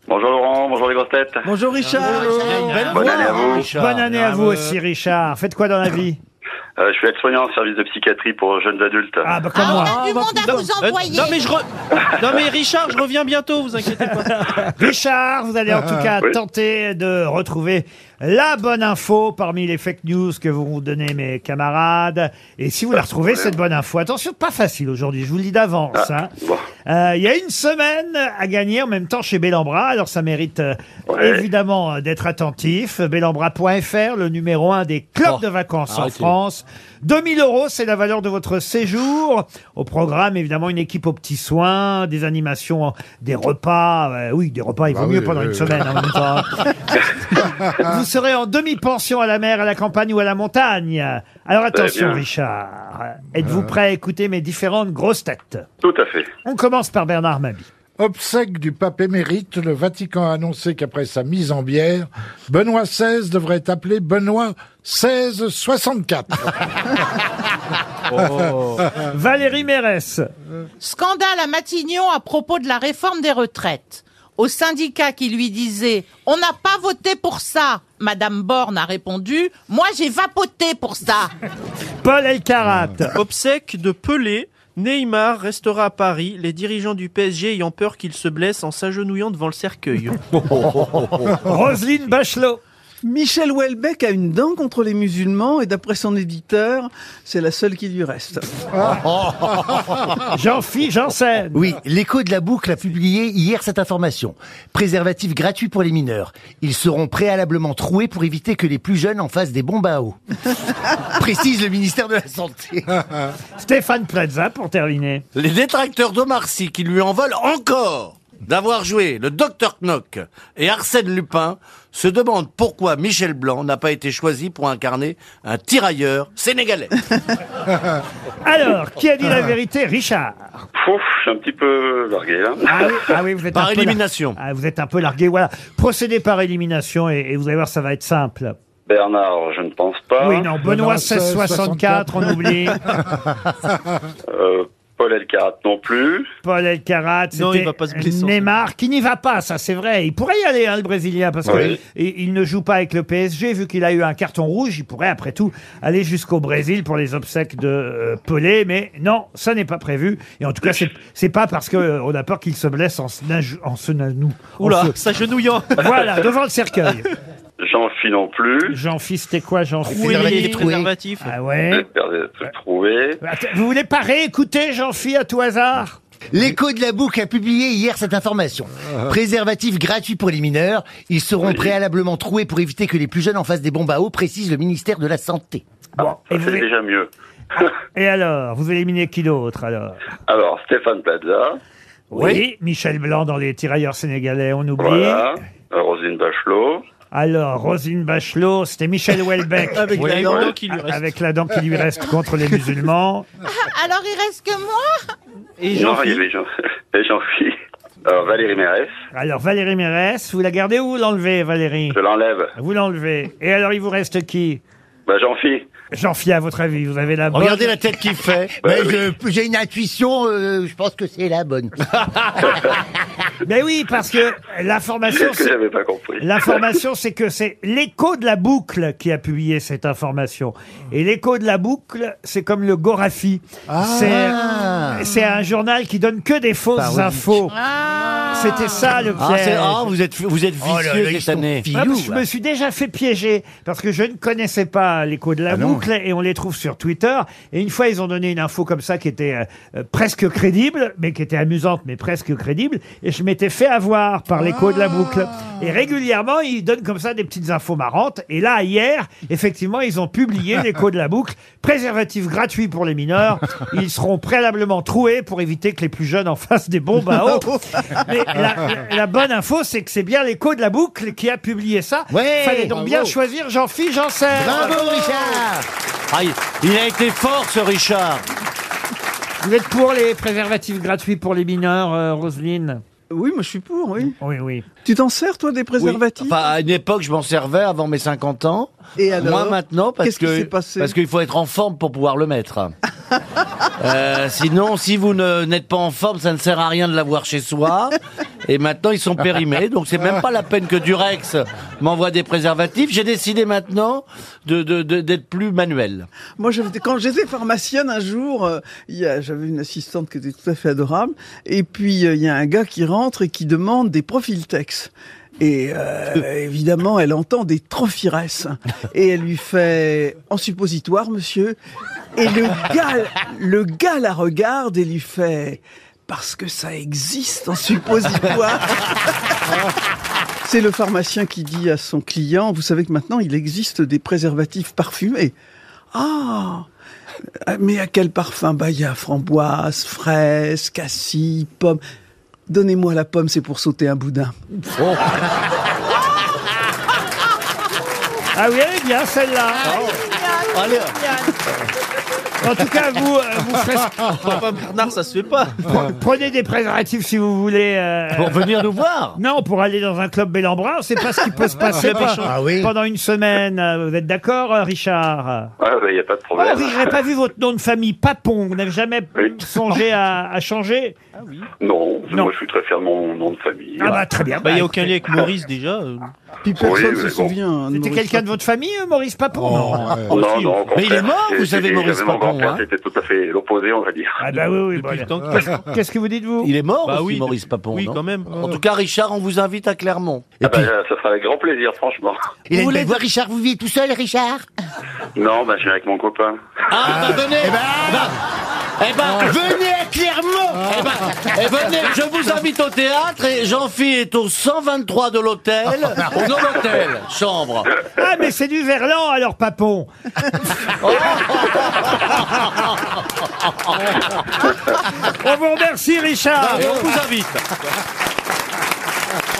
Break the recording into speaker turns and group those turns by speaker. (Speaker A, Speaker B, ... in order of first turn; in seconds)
Speaker A: 0.1-1.4, 2.9-3.7, 6.8-9.2, 23.1-23.5, 25.9-26.6, 31.1-31.4, 51.7-52.2, 55.8-56.3, 130.8-132.9, 138.9-140.5, 144.3-146.2, 151.5-151.8, 167.6-168.8, 171.7-173.2, 181.5-181.7, 186.0-187.1, 190.3-191.6, 194.8-196.8, 205.7-207.5, 208.1-208.9, 211.9-212.5, 215.1-215.6, 218.7-219.0, 225.1-226.6, 365.6-366.9, 371.6-374.0, 376.6-377.3, 380.1-384.1, 390.4-392.2, 395.2-396.3
Speaker B: 1.5-2.8, 93.0-98.7, 274.5-275.4, 283.1-284.2, 284.9-286.4, 289.0-291.0, 306.4-321.6, 322.2-329.1, 330.4-335.3, 335.9-336.7, 337.5-341.8, 342.5-344.3, 376.4-378.2
Speaker C: 1.9-4.5, 35.2-36.3, 115.3-127.1, 133.5-134.4, 192.1-192.4, 200.0-200.3, 217.3-218.6, 239.2-241.6, 276.1-278.3, 285.8-292.7, 293.8-306.1, 344.8-345.2, 349.6-351.0, 358.1-359.2, 380.7-382.6, 386.4-390.3, 392.5-393.0, 396.7-398.2, 398.8-399.5, 400.7-407.7, 410.8-413.0, 416.4-417.4
Speaker D: 2.0-3.4, 98.8-100.2, 101.5-110.2, 110.9-113.0, 169.8-170.9, 176.3-185.6, 218.6-221.9, 233.7-235.1, 236.8-237.4, 240.6-242.2, 245.5-245.9, 272.1-272.7, 274.3-275.7, 362.2-362.7, 390.4-390.7, 392.5-394.5, 396.9-398.2, 399.2-401.4
Speaker E: 3.7-6.2, 9.2-10.0, 14.2-26.3, 26.9-55.6, 56.5-57.7, 68.9-70.3, 82.0-83.2, 91.2-92.6, 100.2-101.7, 113.6-115.2, 128.4-130.6, 132.7-138.6, 140.2-142.8, 146.4-164.9, 165.8-167.1, 168.7-170.7, 171.2-171.9, 173.2-176.0, 186.0-186.7, 187.9-190.0, 192.1-195.3, 197.1-203.3, 209.1-212.0, 212.6-214.6, 215.9-217.8, 223.4-225.6, 226.2-237.6, 238.3-239.8, 241.7-274.8, 279.4-282.8, 284.2-284.7, 348.3-351.3, 352.4-354.1, 355.6-358.4, 359.2-365.5, 366.4-371.0, 373.8-374.8, 377.7-380.1, 384.2-386.5, 407.9-409.9, 415.0-416.9
Speaker F: 9.5-11.4, 70.8-81.3, 203.5-205.0, 237.5-238.7
Speaker G: 9.9-14.5, 68.1-68.8, 83.2-90.2, 147.3-148.5, 164.6-166.1, 169.9-171.3, 199.7-201.1, 205.6-206.2, 354.0-355.8, 361.7-362.3, 371.2-371.5, 373.8-376.2, 380.1-380.6, 384.3-385.7, 386.8-388.4
Speaker H: 44.9-46.0, 58.0-66.5, 140.6-143.3, 272.7-273.1, 379.5-380.2